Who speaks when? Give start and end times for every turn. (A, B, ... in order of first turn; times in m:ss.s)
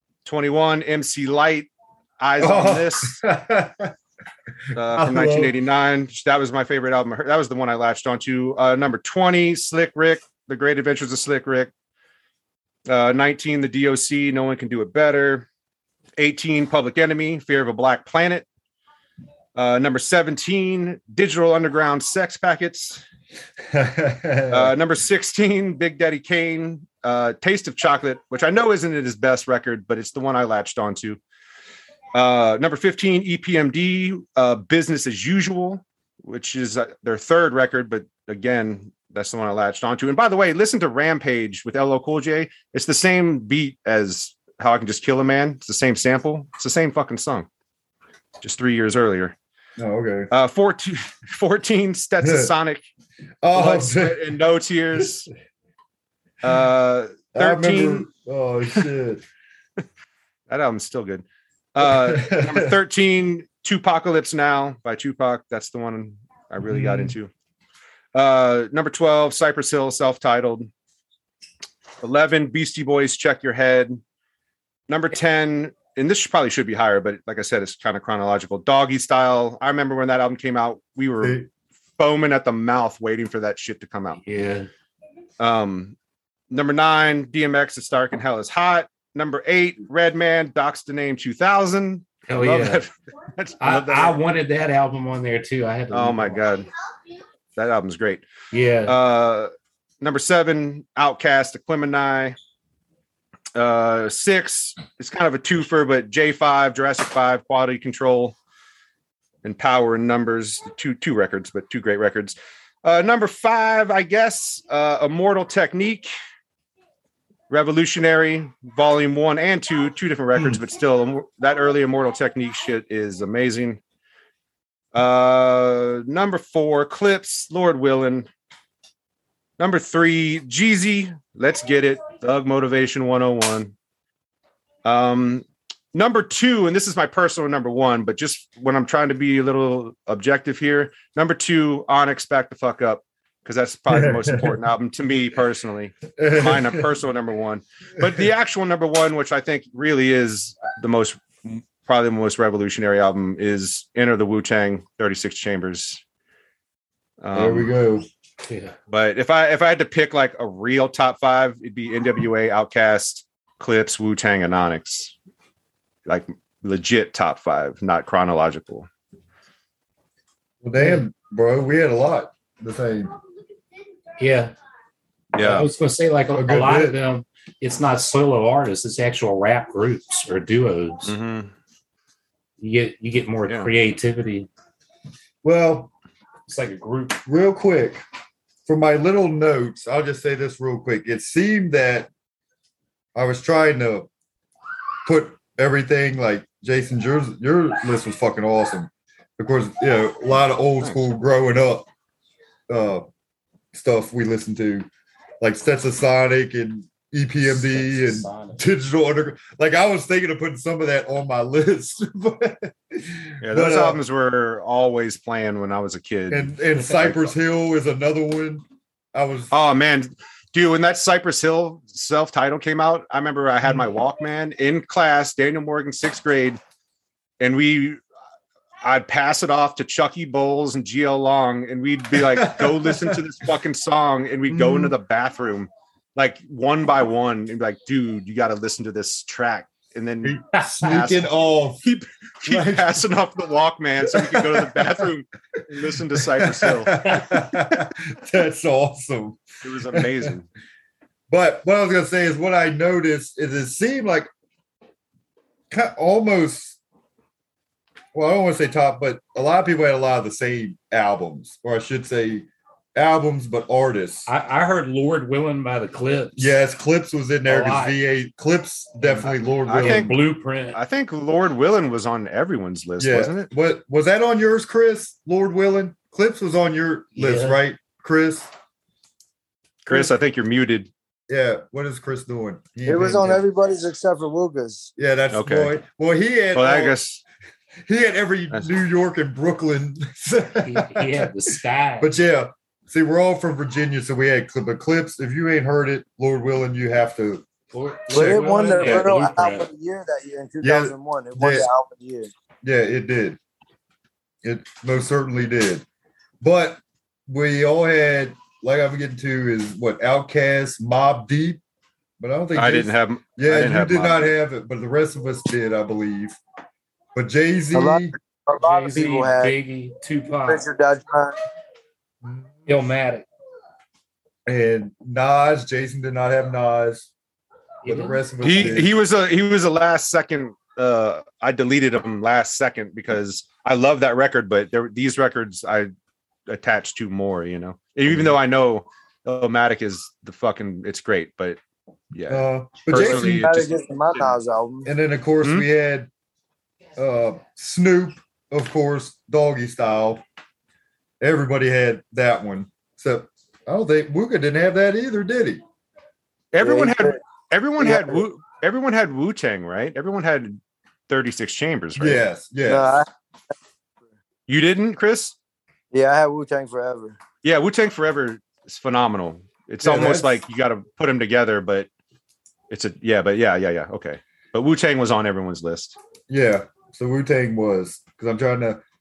0:00.2-0:03.2 A
0:02.4-0:03.9 B
0:04.7-0:05.5 B
0:04.7-0:11.7 A
0:12.9-0:15.5 A
0:16.2-0:18.4 A
0:19.5-0:23.0 A
0:23.7-0:24.7 B
0:24.5-0:31.2 A
0:32.1-0:47.5 A
0:48.4-0:49.3 A
0:49.8-0:50.3 B
0:50.3-0:52.8 A
0:52.2-0:52.5 B
0:53.4-0:54.2 B
0:53.5-0:55.3 A
0:56.4-0:58.1 A
0:57.3-0:59.2 B
1:00.5-1:07.3 A
1:01.8-1:02.7 B
1:06.6-1:07.1 B
1:08.1-1:10.7 A
1:12.0-1:14.0 A
1:14.9-1:21.4 A
1:21.2-1:21.5 B
1:22.0-1:24.2 A
1:24.2-1:24.7 C
1:25.4-1:26.0 A
1:26.5-1:34.2 A
1:32.3-1:32.8 C
1:33.6-1:36.4 C
1:35.9-1:36.7 A
1:37.6-1:38.2 A
1:38.5-1:39.0 C
1:38.8-1:39.5 A
1:40.0-1:42.4 A
1:43.5-1:48.4 A
1:49.4-1:56.1 A
1:57.5-2:03.8 A
2:04.9-2:08.3 A
2:09.6-2:13.7 A
2:14.8-2:36.0 A
2:23.9-2:24.6 B
2:26.2-2:26.9 B
2:37.2-2:37.7 A
2:37.3-2:38.1 B
2:38.4-2:38.7 C
2:38.9-2:45.1 A
2:46.0-2:48.9 A
2:50.6-2:53.1 B
2:50.8-2:51.0 C
2:54.2-2:54.5 C
2:55.3-2:55.7 A
2:55.4-3:01.1 C
2:56.3-2:57.0 B
3:01.0-3:01.5 A
3:02.6-3:04.5 C
3:05.4-3:05.9 B
3:06.5-3:07.2 C
3:07.2-3:08.0 B
3:08.6-3:12.1 B
3:13.1-3:14.1 B
3:15.0-3:21.9 B
3:22.7-3:23.1 B
3:23.7-3:24.9 B
3:25.4-3:34.0 B
3:27.4-3:28.6 C
3:33.4-3:37.3 A
3:36.3-3:39.5 B
3:39.5-3:46.6 A
3:47.4-3:48.0 A
3:48.8-4:01.3 A
3:52.1-3:53.2 B
3:54.5-3:54.9 B
4:00.2-4:01.8 B
4:01.8-4:07.2 A
4:02.4-4:03.0 B
4:04.0-4:05.1 B
4:06.2-4:09.4 B
4:09.6-4:10.4 A
4:09.9-4:10.3 B
4:11.3-4:14.3 B
4:15.7-4:16.8 B
4:18.1-4:24.3 B
4:24.3-4:26.5 C
4:26.4-4:30.1 B
4:27.4-4:28.0 C
4:29.0-4:30.8 C
4:29.6-4:30.2 A
4:30.7-4:33.5 A
4:33.0-4:38.5 B
4:37.1-4:37.6 C
4:39.8-4:40.9 A
4:41.3-4:43.4 B
4:42.9-4:44.9 D
4:45.0-4:47.0 B
4:45.3-4:45.7 A
4:46.5-4:47.2 A
4:47.9-4:51.3 B
4:50.6-4:52.1 C
4:52.0-4:57.4 B
4:57.7-4:59.7 C
4:58.1-4:59.1 B
4:58.1-5:02.3 D
5:00.6-5:01.7 B
5:02.6-5:03.4 B
5:04.4-5:05.8 B
5:06.4-5:11.6 B
5:12.2-5:16.4 B
5:12.5-5:14.3 A
5:17.1-5:18.1 B
5:17.7-5:19.6 D
5:18.5-5:20.6 C
5:20.4-5:21.4 D
5:22.2-5:22.5 B
5:22.6-5:23.2 C
5:24.4-5:27.1 B
5:27.8-5:28.2 C
5:27.8-5:28.9 B
5:28.4-5:35.9 A
5:36.5-5:41.6 A
5:38.1-5:38.3 B
5:42.1-5:44.3 A
5:42.3-5:43.5 B
5:42.9-5:44.9 D
5:44.8-5:46.1 B
5:47.0-5:50.2 B
5:51.2-5:55.6 B
5:56.5-6:02.2 A
5:56.6-5:57.2 D
5:57.8-5:58.2 D
6:02.0-6:03.0 B
6:02.7-6:03.1 D
6:04.5-6:05.4 A
6:05.9-6:07.2 D
6:07.4-6:11.9 A
6:09.8-6:10.4 B
6:12.7-6:16.0 A
6:16.3-6:18.8 B